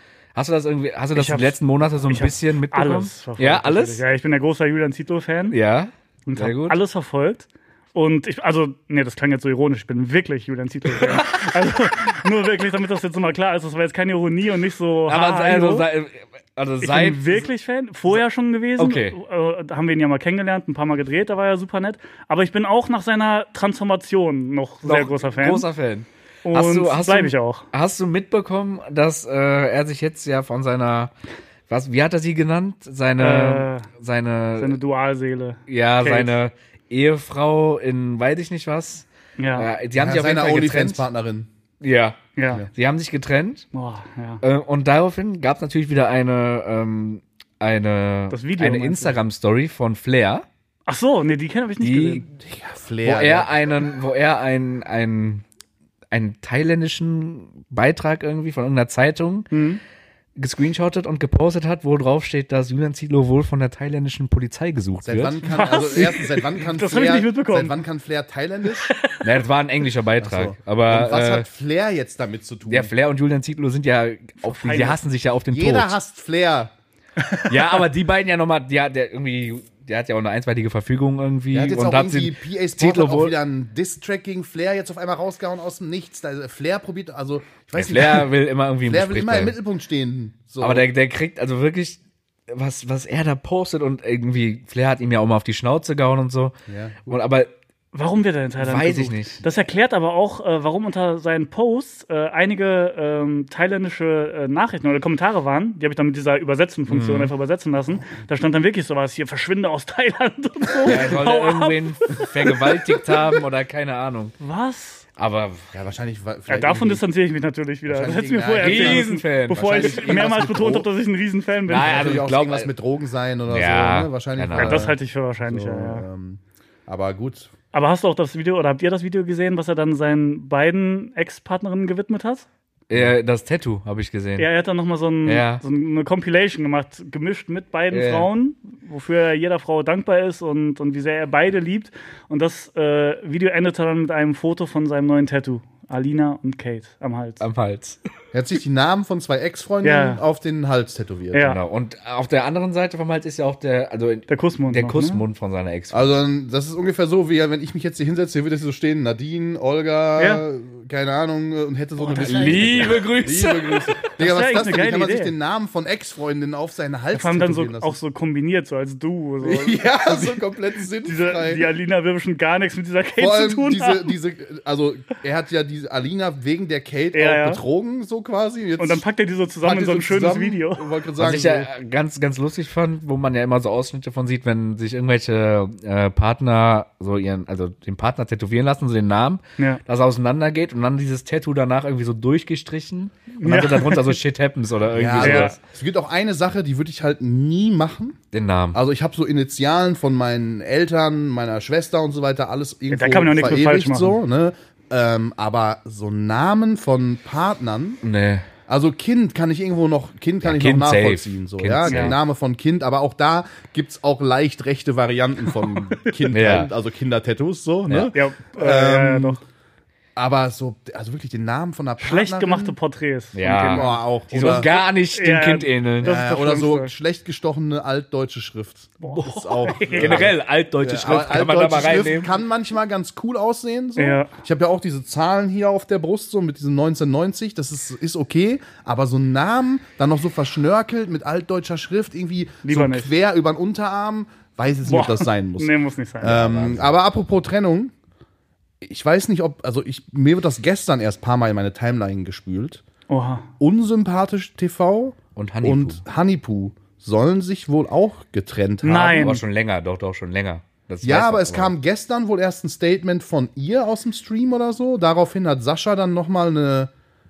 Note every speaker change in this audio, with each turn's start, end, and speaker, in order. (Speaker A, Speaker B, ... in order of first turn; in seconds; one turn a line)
Speaker A: 0.3-4.0
Speaker B: 1.1-5.6
Speaker A: 5.5-6.8
Speaker B: 6.3-15.9
Speaker A: 15.1-17.5
Speaker B: 16.8-25.7
Speaker A: 18.8-19.2
Speaker A: 24.8-31.1
Speaker B: 26.5-27.7
Speaker A: 31.7-34.8
Speaker B: 33.2-33.9
Speaker B: 34.6-36.3
Speaker A: 35.7-41.0
Speaker B: 39.4-39.7
Speaker C: 40.0-41.5
Speaker A: 41.8-43.6
Speaker B: 42.4-42.6
Speaker B: 43.7-44.4
Speaker A: 44.4-50.5
Speaker B: 48.3-49.2
Speaker B: 50.9-52.3
Speaker A: 51.8-52.2
Speaker C: 52.4-53.5
Speaker A: 53.0-55.4
Speaker A: 56.1-59.5
Speaker B: 59.5-59.8
Speaker A: 60.4-65.5
Speaker C: 65.0-68.9
Speaker B: 65.5-67.8
Speaker B: 68.7-69.2
Speaker A: 69.2-71.5
Speaker C: 70.2-72.9
Speaker A: 72.7-76.0
Speaker B: 74.4-75.0
Speaker C: 75.5-76.7
Speaker A: 77.5-83.3
Speaker C: 81.5-88.3
Speaker A: 87.8-89.6
Speaker C: 88.8-90.9
Speaker A: 90.6-97.5
Speaker C: 96.7-97.0
Speaker B: 97.9-112.8
Speaker A: 98.6-99.4
Speaker A: 106.9-107.3
Speaker A: 110.8-114.4
Speaker B: 114.4-115.0
Speaker A: 115.2-115.7
Speaker C: 115.7-117.1
Speaker B: 116.5-122.2
Speaker C: 117.9-120.9
Speaker A: 118.6-120.7
Speaker A: 121.7-122.7
Speaker C: 121.8-127.5
Speaker A: 123.5-124.9
Speaker B: 124.5-126.0
Speaker B: 127.7-132.5
Speaker A: 132.9-134.5
Speaker B: 134.4-147.4
Speaker A: 135.3-135.6
Speaker A: 137.9-138.3
Speaker A: 147.4-148.0
Speaker C: 148.3-151.5
Speaker B: 149.8-150.2
Speaker B: 151.3-151.6
Speaker A: 151.4-156.1
Speaker B: 154.3-155.2
Speaker C: 155.9-168.0
Speaker B: 160.2-160.4
Speaker A: 162.1-164.0
Speaker B: 162.1-162.9
Speaker B: 164.2-165.3
Speaker B: 167.1-174.1
Speaker C: 169.4-171.7
Speaker C: 173.2-179.0
Speaker B: 177.1-177.6
Speaker B: 178.8-180.9
Speaker C: 179.6-181.7
Speaker A: 181.2-195.6
Speaker B: 193.4-194.2
Speaker C: 194.9-198.2
Speaker B: 195.2-195.6
Speaker A: 198.3-198.8
Speaker C: 198.7-208.0
Speaker B: 202.9-204.2
Speaker A: 208.0-208.5
Speaker C: 208.7-219.4
Speaker A: 210.4-212.2
Speaker B: 211.9-212.2
Speaker A: 216.3-216.7
Speaker B: 218.1-219.4
Speaker C: 220.2-222.8
Speaker B: 222.0-226.9
Speaker A: 223.3-226.2
Speaker C: 223.7-224.7
Speaker C: 226.0-247.9
Speaker B: 229.0-230.3
Speaker A: 229.8-232.3
Speaker B: 234.0-234.3
Speaker B: 242.7-243.1
Speaker B: 244.9-246.4
Speaker A: 246.2-246.9
Speaker C: 248.8-252.8
Speaker B: 253.1-253.5
Speaker C: 253.6-259.4
Speaker A: 255.4-256.0
Speaker B: 258.8-259.4
Speaker A: 259.2-261.7
Speaker C: 261.0-266.9